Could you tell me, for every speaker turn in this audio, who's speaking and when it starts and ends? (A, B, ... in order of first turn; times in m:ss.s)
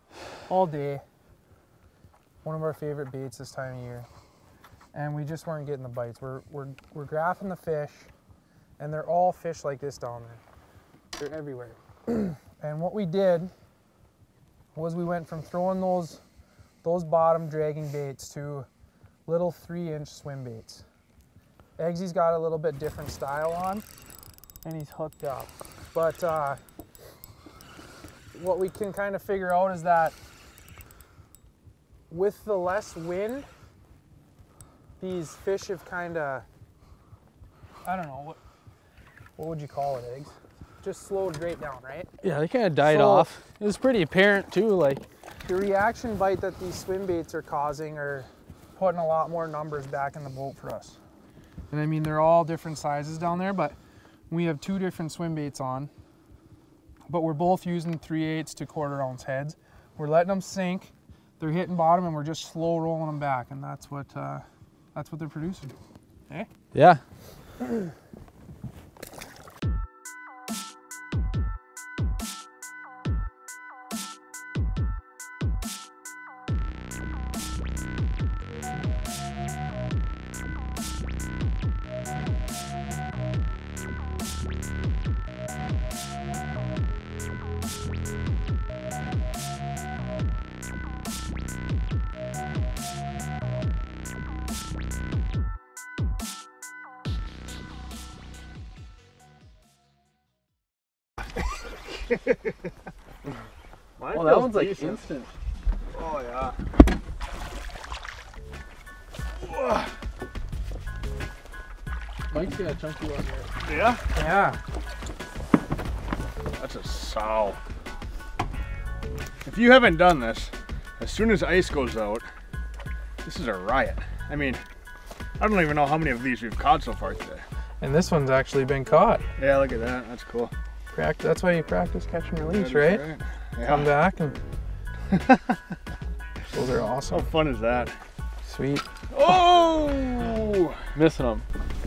0:00.5-0:01.0 A
0:02.4-0:04.1 A
0:04.9-0:08.1 A
0:08.8-0:10.4 A
0:11.2-0:13.5 A
0:14.7-0:16.2 A
0:16.8-0:18.7 A
0:19.3-0:20.8 A
0:21.8-0:23.8 A
0:24.6-0:26.6 A
0:28.3-0:30.2 A
0:32.1-0:33.5 A
0:35.0-0:36.5 A
0:37.8-0:38.4 A
0:39.4-0:42.1 A
0:42.2-0:45.0 B
0:42.8-0:43.3 A
0:45.4-0:51.0 A
0:51.7-0:53.8 A
0:54.3-0:55.9 A
0:57.1-1:05.8 A
1:06.7-1:07.0 B
1:44.0-1:45.0 C
1:44.1-1:45.3 B
1:45.9-1:46.6 C
1:49.4-1:49.9 C
1:52.3-1:53.5 B
1:53.6-1:54.0 C
1:54.1-1:54.6 A
1:56.6-1:57.6 C
1:59.4-2:02.3 C
2:03.2-2:04.6 C
2:05.4-2:07.4 C
2:07.8-2:09.2 A
2:09.4-2:10.5 C
2:10.9-2:13.1 A
2:12.5-2:13.9 C
2:13.6-2:14.4 A
2:15.1-2:15.6 C
2:16.5-2:17.2 A
2:17.1-2:18.0 C
2:18.4-2:18.9 A
2:19.1-2:20.8 C
2:21.0-2:21.5 B